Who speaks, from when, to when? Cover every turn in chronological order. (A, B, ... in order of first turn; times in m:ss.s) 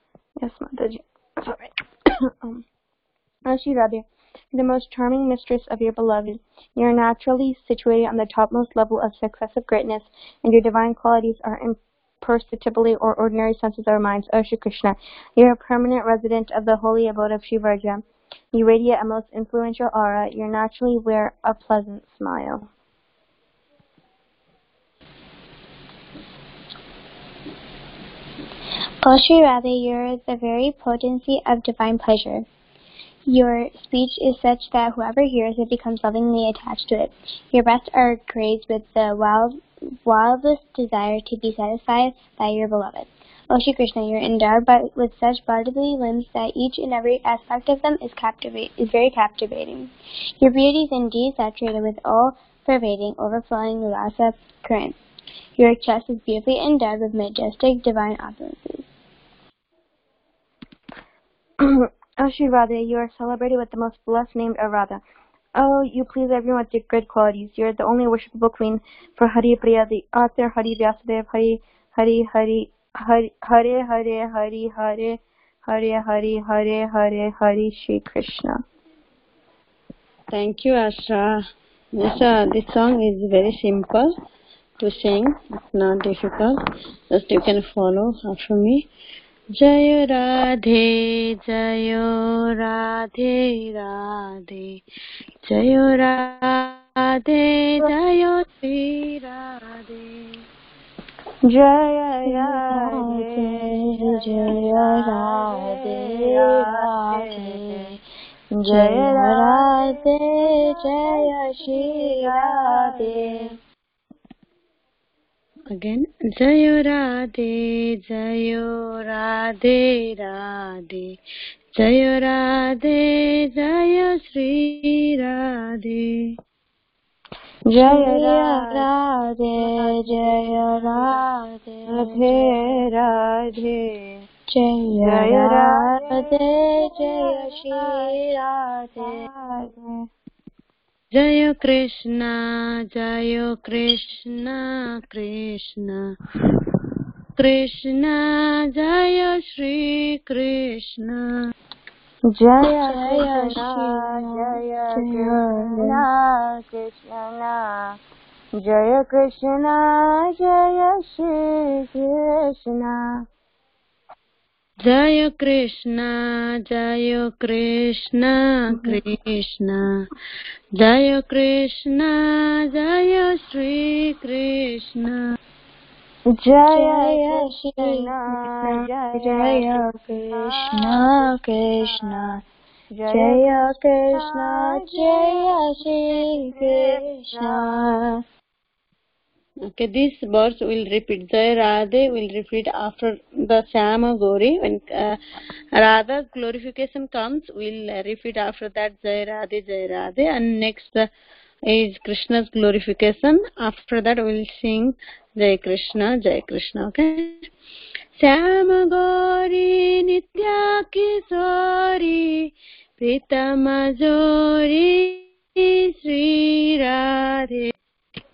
0:00.4-0:01.7 A
0:02.4-0:02.6 A
0:03.4-0:22.7 A
0:29.0-0:32.5 B
0:33.3-0:55.0 B
0:55.6-0:58.9 B
1:01.6-1:05.0 A
1:05.6-1:18.6 A
1:20.3-1:21.4 C
1:21.9-1:24.1 C
1:24.8-1:26.6 C
1:27.1-1:28.9 C
1:29.6-1:34.8 C
1:35.4-1:40.4 C
1:41.4-1:47.9 A
1:42.2-1:48.0 B
1:48.6-1:53.5 B
1:48.6-1:53.5 A
1:55.7-2:01.2 C
2:01.7-2:06.3 C
2:07.7-2:08.9 A
2:07.8-2:12.7 B
2:09.6-2:11.2 A
2:11.9-2:14.1 A
2:14.5-2:18.3 B
2:15.0-2:20.0 A
2:18.9-2:19.2 B
2:21.1-2:26.0 C
2:27.4-2:31.3 C
2:32.3-2:38.0 A
2:32.6-2:36.0 B
2:38.5-2:43.2 A
2:44.8-2:50.0 C
2:48.7-2:49.0 A
2:50.8-2:55.2 C
2:56.4-3:01.0 A
2:56.7-3:02.4 B
3:01.8-3:07.8 A
3:03.1-3:08.1 B
3:09.6-3:15.2 C
3:15.7-3:21.1 C
3:21.7-3:27.5 C
3:28.2-3:37.7 C